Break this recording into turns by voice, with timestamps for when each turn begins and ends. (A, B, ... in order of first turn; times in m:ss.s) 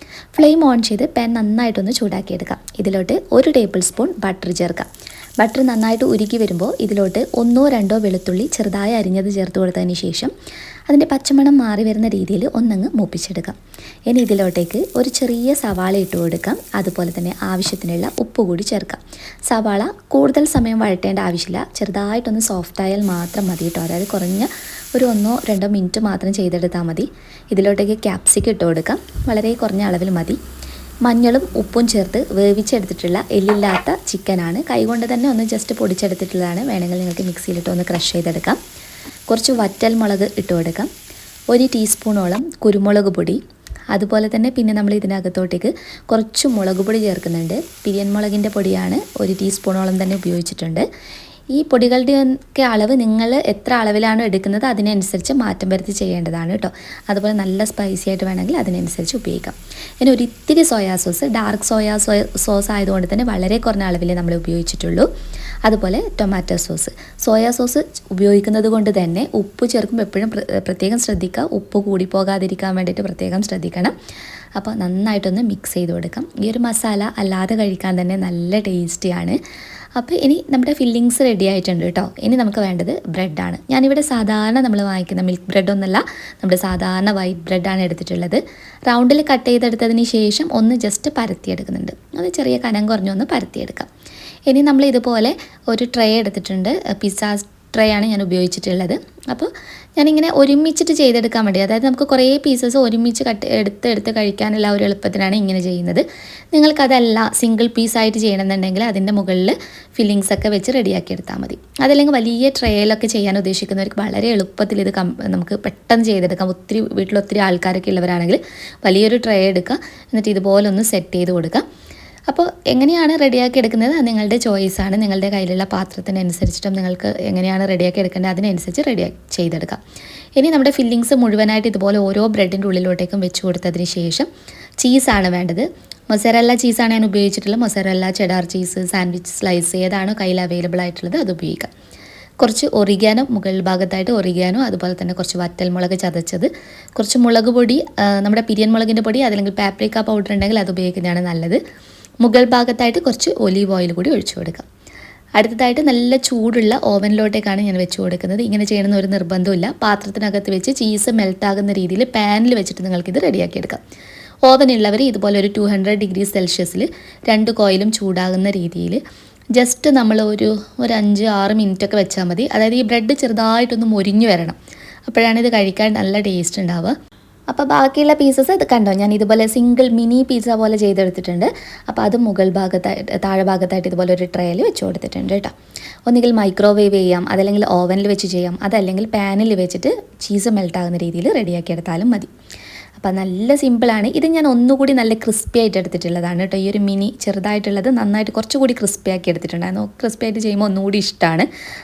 0:00.3-0:04.9 A
0:05.4-0:10.3 A
0:10.9-0:13.6 A
0:14.1-0:30.4 A
0:31.0-0:38.6 A
0:39.3-0:40.9 A
0:41.5-0:43.4 A
0:43.9-0:50.9 A
0:51.5-1:05.1 A
1:05.6-1:14.0 A
1:14.6-1:19.4 A
1:20.0-1:33.9 A
1:34.5-2:01.6 A
2:02.3-2:09.8 A
2:10.4-2:14.3 A
2:14.8-2:21.7 A
2:22.4-2:31.6 A
2:32.2-2:34.7 A
2:35.4-2:43.8 A
2:44.4-2:49.0 A
2:49.5-2:54.6 A
2:55.1-2:56.9 A
2:57.5-3:05.5 A
3:06.1-3:12.3 A
3:13.0-3:21.5 A